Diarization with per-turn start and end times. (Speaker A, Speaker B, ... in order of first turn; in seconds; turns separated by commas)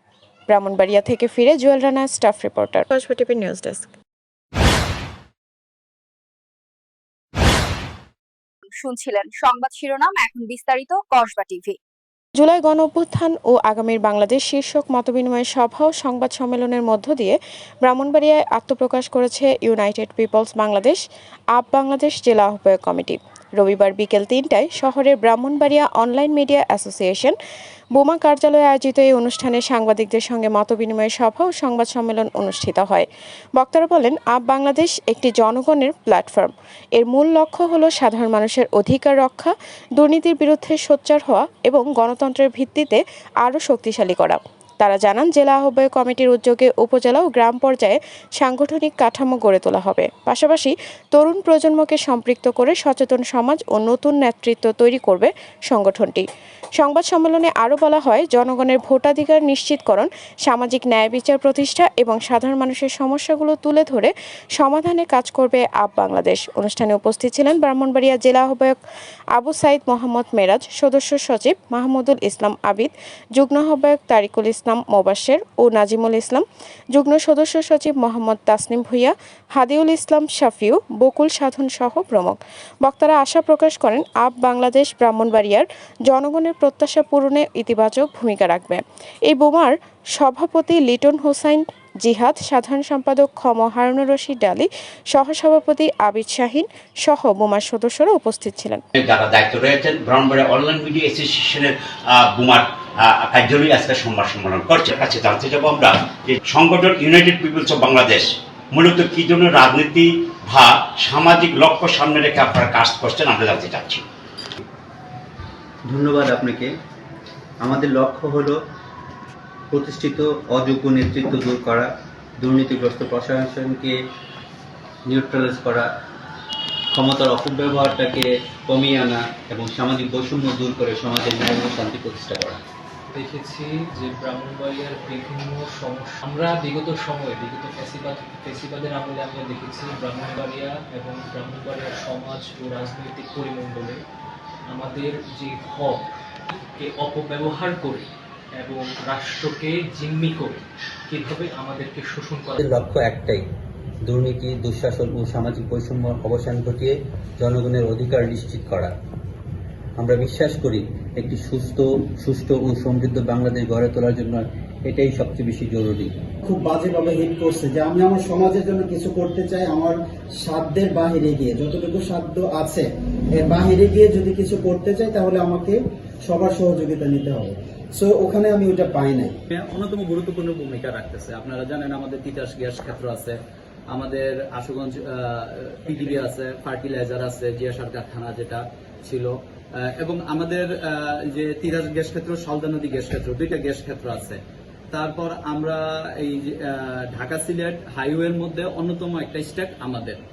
Speaker A: 0.5-3.9, Speaker B: 8.8-11.8, Speaker A: 12.4-21.0, Speaker A: 21.6-27.4, Speaker A: 27.9-56.3, Speaker A: 56.8-68.8, Speaker A: 69.3-98.8, Speaker C: 99.0-114.0, Speaker D: 115.9-116.7, Speaker D: 117.6-118.6, Speaker D: 119.7-124.0, Speaker D: 125.1-125.9, Speaker D: 126.9-132.6, Speaker E: 133.1-144.0, Speaker E: 144.7-148.1, Speaker E: 148.6-152.6, Speaker D: 152.6-153.4, Speaker D: 154.1-158.9, Speaker D: 160.0-166.2, Speaker F: 166.4-179.4, Speaker G: 179.5-183.4, Speaker G: 183.9-189.3, Speaker G: 190.0-194.4, Speaker G: 194.9-200.2